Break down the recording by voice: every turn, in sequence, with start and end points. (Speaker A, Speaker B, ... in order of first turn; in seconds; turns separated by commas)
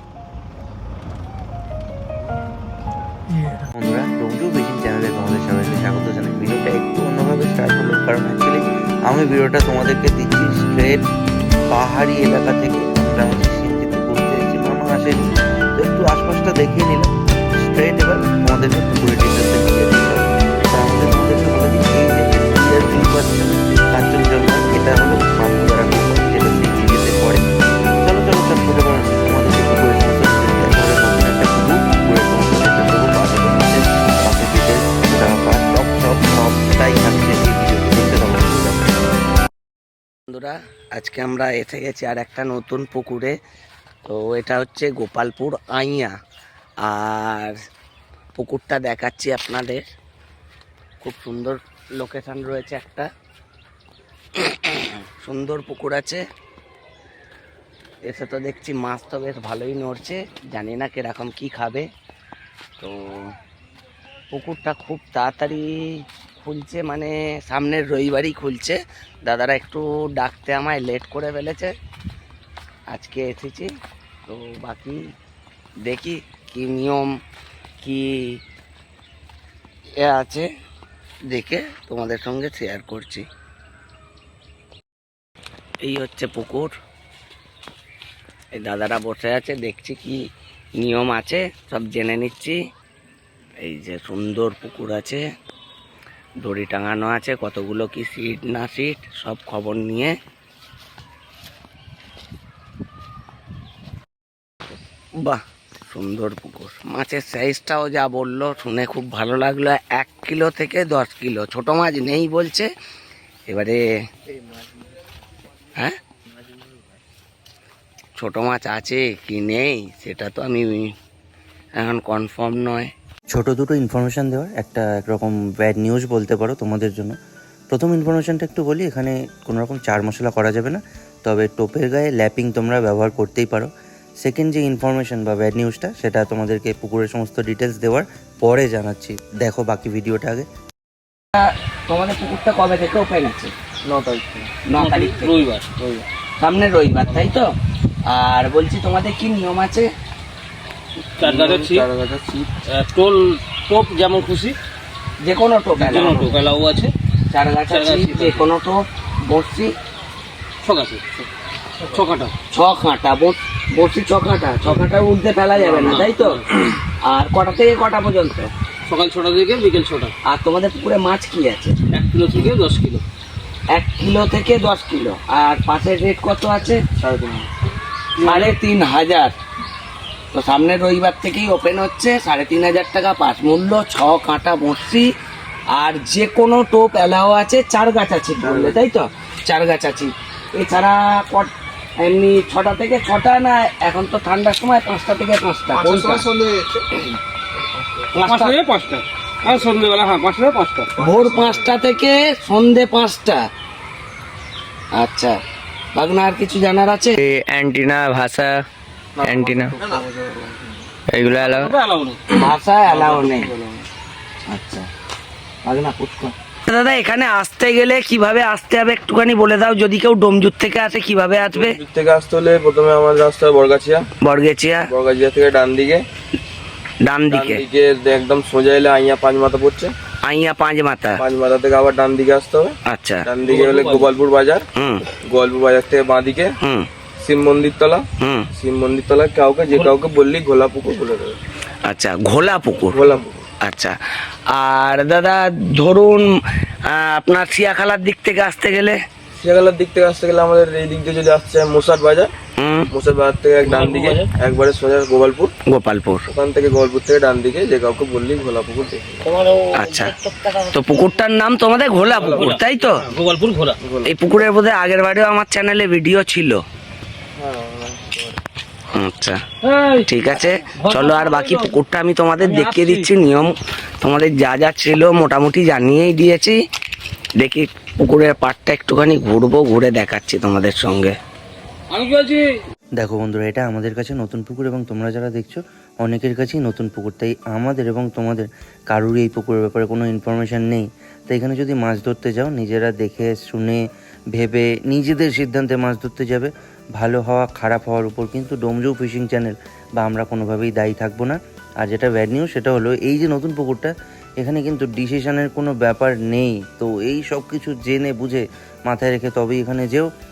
Speaker A: 3.7-11.0, Speaker A: 11.7-15.2, Speaker A: 15.8-17.1, Speaker A: 17.6-27.4, Speaker A: 28.0-38.9, Speaker B: 40.3-43.4, Speaker B: 44.1-46.1, Speaker B: 46.8-47.6, Speaker B: 48.4-49.8, Speaker B: 51.0-53.1, Speaker B: 54.4-56.2, Speaker B: 58.0-61.9, Speaker B: 62.8-63.3, Speaker B: 64.3-65.8, Speaker B: 66.4-71.7, Speaker B: 72.9-73.7, Speaker B: 74.3-75.0, Speaker B: 75.8-77.1, Speaker B: 77.8-78.3, Speaker B: 80.0-80.5, Speaker B: 81.3-83.3, Speaker B: 85.8-86.7, Speaker B: 88.5-90.2, Speaker B: 90.8-92.6, Speaker B: 93.6-95.2, Speaker B: 96.4-100.2, Speaker B: 105.2-112.7, Speaker B: 113.5-113.8, Speaker B: 118.2-120.9, Speaker B: 121.8-122.9, Speaker A: 123.3-127.1, Speaker A: 127.7-133.7, Speaker A: 134.2-140.4, Speaker B: 141.3-143.5, Speaker C: 143.8-144.5, Speaker B: 144.7-145.5, Speaker D: 144.7-145.6, Speaker C: 145.8-146.1, Speaker B: 146.4-147.5, Speaker B: 148.1-149.9, Speaker D: 151.2-151.9, Speaker C: 151.2-152.5, Speaker D: 152.7-154.6, Speaker B: 155.2-156.3, Speaker D: 155.8-156.9, Speaker B: 157.3-159.7, Speaker D: 157.7-158.4, Speaker D: 160.6-161.0, Speaker D: 161.8-162.3, Speaker B: 162.5-168.5, Speaker D: 165.5-166.4, Speaker D: 168.9-170.1, Speaker B: 170.2-171.8, Speaker D: 171.9-173.0, Speaker B: 173.7-176.8, Speaker C: 177.0-177.5, Speaker B: 178.2-179.3, Speaker D: 178.2-178.5, Speaker B: 180.3-185.1, Speaker B: 185.7-196.4, Speaker C: 188.4-188.8, Speaker B: 198.1-198.5, Speaker D: 198.2-200.9, Speaker B: 200.9-203.4, Speaker B: 204.9-205.4, Speaker B: 205.9-207.2, Speaker E: 207.2-208.7, Speaker C: 209.2-210.8, Speaker E: 209.2-209.7, Speaker E: 211.1-211.7, Speaker D: 211.3-212.2, Speaker B: 212.3-213.5, Speaker C: 212.9-213.8, Speaker B: 214.5-214.9, Speaker B: 215.6-221.8, Speaker C: 221.5-224.0, Speaker B: 224.2-224.9, Speaker C: 224.9-226.0, Speaker B: 227.0-227.6, Speaker C: 227.3-229.9, Speaker B: 230.2-231.2, Speaker C: 231.2-234.6, Speaker B: 232.9-233.2, Speaker D: 233.4-234.1, Speaker B: 234.8-235.0, Speaker C: 235.3-236.5, Speaker B: 236.6-236.9, Speaker C: 237.2-241.4, Speaker B: 238.2-238.5, Speaker B: 241.8-243.0, Speaker C: 242.9-243.4, Speaker B: 243.6-244.0, Speaker B: 244.5-246.3, Speaker B: 246.8-249.0, Speaker C: 249.3-252.3, Speaker B: 252.6-252.9, Speaker C: 252.9-255.5, Speaker D: 253.6-254.3, Speaker B: 255.7-256.3, Speaker C: 256.3-259.2, Speaker D: 259.2-260.7, Speaker B: 259.7-260.1, Speaker B: 260.7-263.0, Speaker D: 262.0-263.8, Speaker C: 263.8-264.1, Speaker B: 264.0-266.6, Speaker C: 267.4-268.4, Speaker B: 268.9-269.4, Speaker D: 269.6-271.7, Speaker B: 270.0-276.6, Speaker D: 272.4-273.1, Speaker B: 277.4-281.1, Speaker D: 281.9-282.5, Speaker A: 283.0-293.8, Speaker A: 294.3-310.1